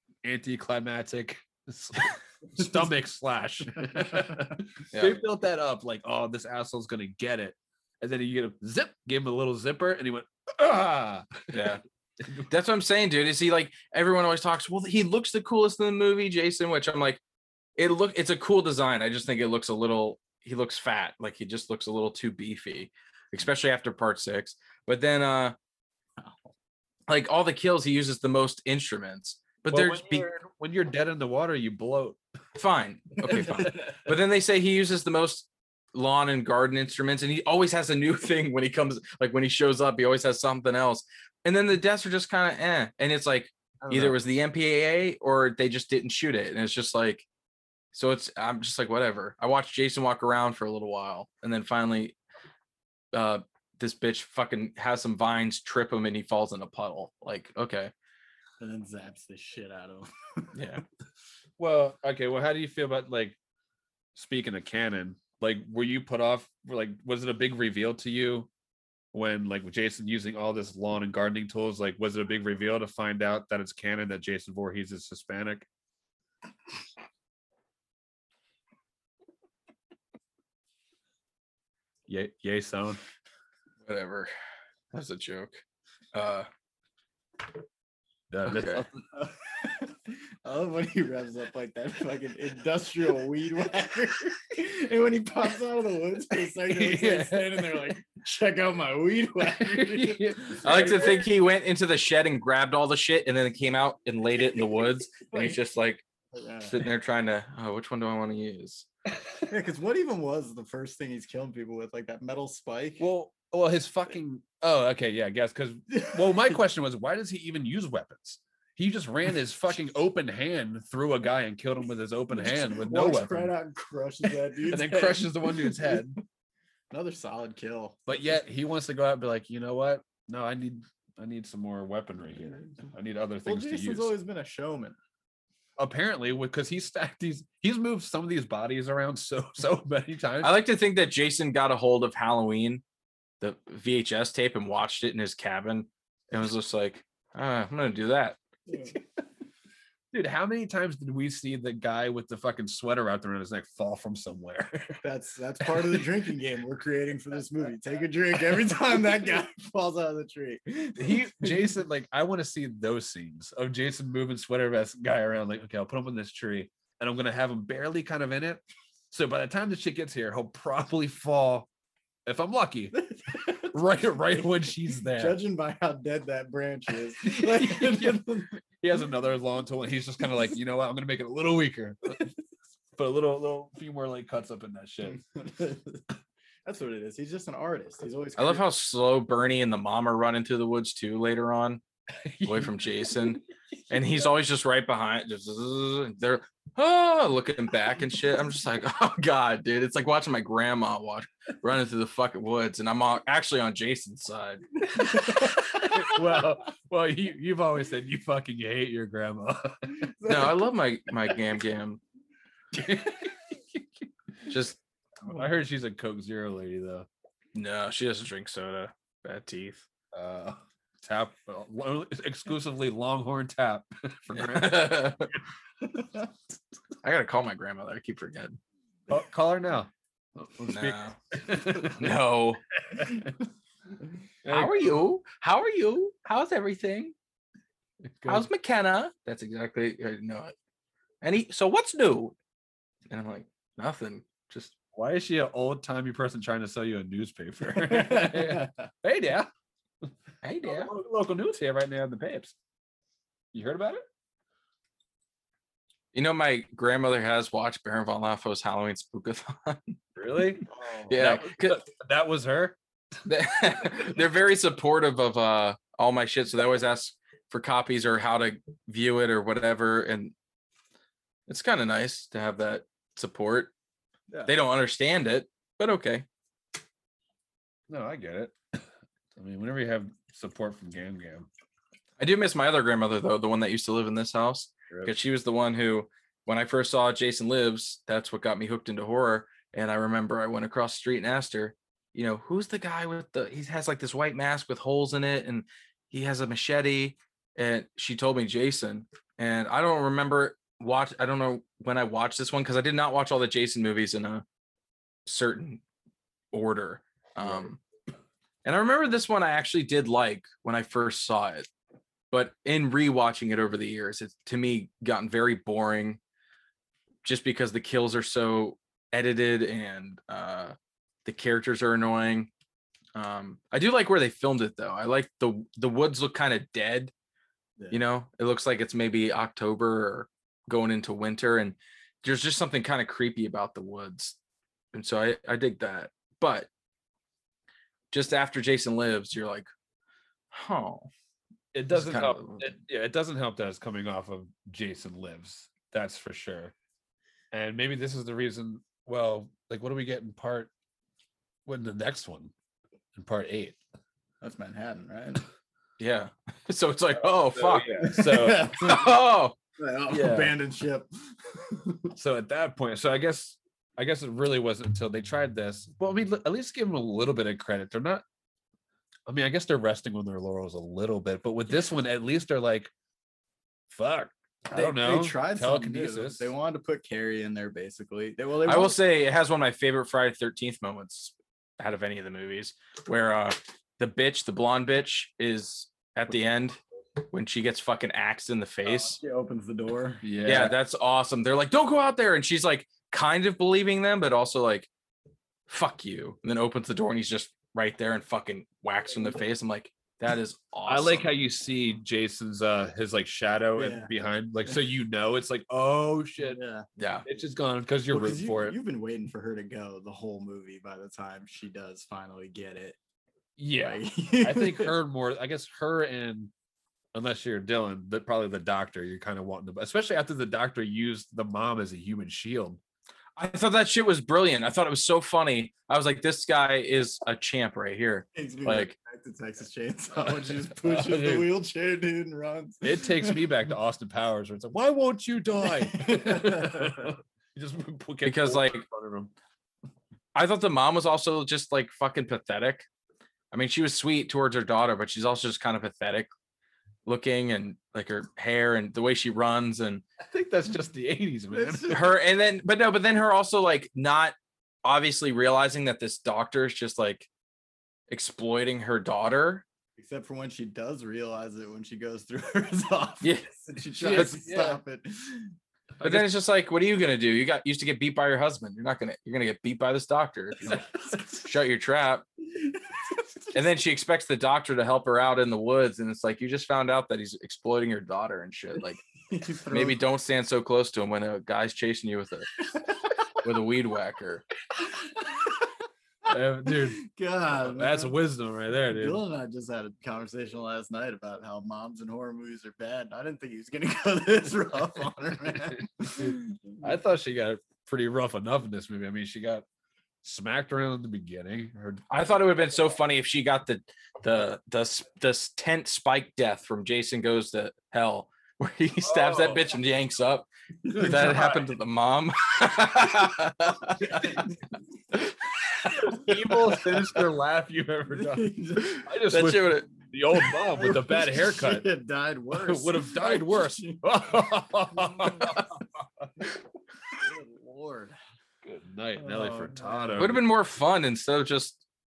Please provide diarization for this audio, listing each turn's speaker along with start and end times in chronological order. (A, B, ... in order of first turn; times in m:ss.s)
0:00.2-0:12.4 A
0:04.9-0:05.2 B
0:11.5-0:11.8 B
0:12.5-0:17.2 B
0:17.8-0:25.5 B
0:27.1-0:30.2 B
0:29.6-0:32.2 A
0:32.6-0:47.2 B
0:33.2-0:33.7 A
0:43.8-0:44.2 A
0:47.9-0:52.1 B
0:53.1-0:57.9 B
0:58.6-1:00.1 C
1:00.5-1:00.8 B
1:01.6-1:03.4 A
1:04.1-1:08.5 A
1:09.1-1:15.6 A
1:22.1-1:23.0 A
1:23.8-1:24.3 B
1:24.9-1:25.6 B
1:26.1-1:26.5 B
1:28.3-1:29.0 A
1:28.5-1:28.8 B
1:29.1-1:41.2 C
1:36.6-1:37.9 A
1:39.4-1:41.1 A
1:40.6-1:46.0 B
1:45.3-1:45.6 C
1:46.3-1:46.7 C
1:46.7-1:48.9 B
1:49.5-1:53.0 C
1:53.0-2:03.5 A
1:55.9-1:56.6 C
2:02.3-2:06.1 C
2:04.6-2:06.2 A
2:06.9-2:08.0 C
2:08.1-2:14.1 A
2:13.4-2:15.0 C
2:15.8-2:20.6 A
2:20.4-2:22.8 B
2:23.4-2:28.4 B
2:28.7-2:28.9 C
2:30.1-2:35.0 A
2:35.0-2:41.7 C
2:35.6-2:36.0 A
2:41.0-2:51.7 A
2:52.2-2:55.4 A
2:52.9-2:53.8 C
2:55.1-2:58.6 C
2:57.2-3:02.3 A
3:03.0-3:05.2 A
3:05.4-3:06.0 C
3:06.6-3:08.6 C
3:08.4-3:11.8 B
3:12.1-3:12.8 A
3:12.4-3:24.9 B
3:24.9-3:25.6 C
3:25.0-3:30.3 A
3:30.1-3:30.5 C
3:30.2-3:32.0 B
3:32.7-3:34.0 A
3:34.5-3:34.8 B
3:35.3-3:37.1 A
3:37.5-3:39.8 B
3:40.1-3:45.2 A
3:44.3-3:45.3 B
3:47.0-3:48.6 B
3:49.1-3:52.2 A
3:50.7-3:51.2 B
3:51.8-3:52.6 B
3:52.9-3:53.3 A
3:54.4-3:54.9 A
3:54.4-3:57.1 B
3:58.0-3:58.5 A
3:58.2-4:00.5 B
4:01.2-4:02.3 B
4:03.1-4:04.7 B
4:04.9-4:09.5 A
4:07.8-4:08.7 C
4:10.4-4:10.9 B
4:10.6-4:12.5 A
4:13.5-4:14.0 A
4:16.1-4:20.0 B
4:20.2-4:22.8 A
4:21.1-4:21.8 B
4:23.2-4:30.3 B
4:31.5-4:33.7 B
4:34.5-4:36.2 B
4:37.9-4:41.5 A
4:42.2-5:04.4 B
5:05.2-5:05.8 B
5:06.5-5:07.8 B
5:08.6-5:11.7 B
5:12.3-5:16.2 B
5:17.2-5:22.5 B
5:23.1-5:27.1 B
5:27.9-5:34.4 B
5:34.9-5:36.7 B
5:38.1-5:39.7 B
5:40.5-5:41.1 B
5:41.7-5:46.7 A
5:41.9-5:42.7 B
5:47.5-5:50.7 A
5:51.6-5:52.5 A
5:53.1-5:53.8 A
5:54.4-5:55.4 C
5:56.0-5:58.2 B
5:57.5-5:58.7 A
5:58.0-5:59.1 C
5:58.8-5:59.6 B
5:59.8-6:02.1 C
6:00.1-6:00.5 A
6:02.2-6:08.2 A
6:09.3-6:12.9 A
6:13.9-6:16.5 A
6:14.7-6:19.0 C
6:18.6-6:29.2 B
6:28.8-6:30.2 C
6:30.2-6:30.8 A
6:30.4-6:34.9 B
6:35.7-6:41.3 B
6:40.8-6:46.6 A
6:43.8-6:44.1 C
6:46.4-6:46.8 C
6:47.0-6:47.2 B
6:47.2-6:48.8 A
6:48.1-6:53.0 C
6:53.6-6:56.5 A
6:53.8-6:54.9 C
6:57.1-7:02.8 A
7:03.4-7:08.9 B
7:08.3-7:13.4 C
7:10.8-7:11.5 A
7:12.8-7:19.3 A
7:15.7-7:17.1 C
7:18.2-7:18.8 B
7:20.3-7:22.8 B
7:23.5-7:26.3 B
7:27.0-7:30.0 B
7:30.2-7:32.1 A
7:31.5-7:32.2 C
7:31.9-7:37.3 B
7:38.1-7:39.6 B
7:40.0-7:45.5 C
7:43.2-7:43.5 B
7:44.0-7:44.8 A
7:44.1-7:44.3 B
7:46.0-7:46.3 A
7:46.0-7:50.8 B
7:50.7-7:51.4 A
7:51.3-7:52.2 B
7:53.5-7:59.0 B
7:59.3-8:00.0 C
7:59.7-8:02.6 B
8:03.4-8:04.4 B
8:06.3-8:07.0 A
8:06.7-8:08.2 C
8:07.5-8:09.2 A
8:08.9-8:16.8 C
8:16.2-8:19.6 A
8:20.2-8:22.0 A
8:22.1-8:34.4 B
8:29.0-8:29.7 A
8:30.9-8:31.6 A
8:34.1-8:34.4 C
8:35.8-8:41.8 A
8:36.0-8:36.4 C
8:38.1-8:39.1 C
8:39.3-8:39.9 B
8:40.4-8:44.0 C
8:42.5-8:45.7 A
8:44.9-8:45.7 C
8:47.2-8:48.2 C
8:48.6-8:50.4 A
8:49.2-8:50.3 C
8:50.2-8:51.8 B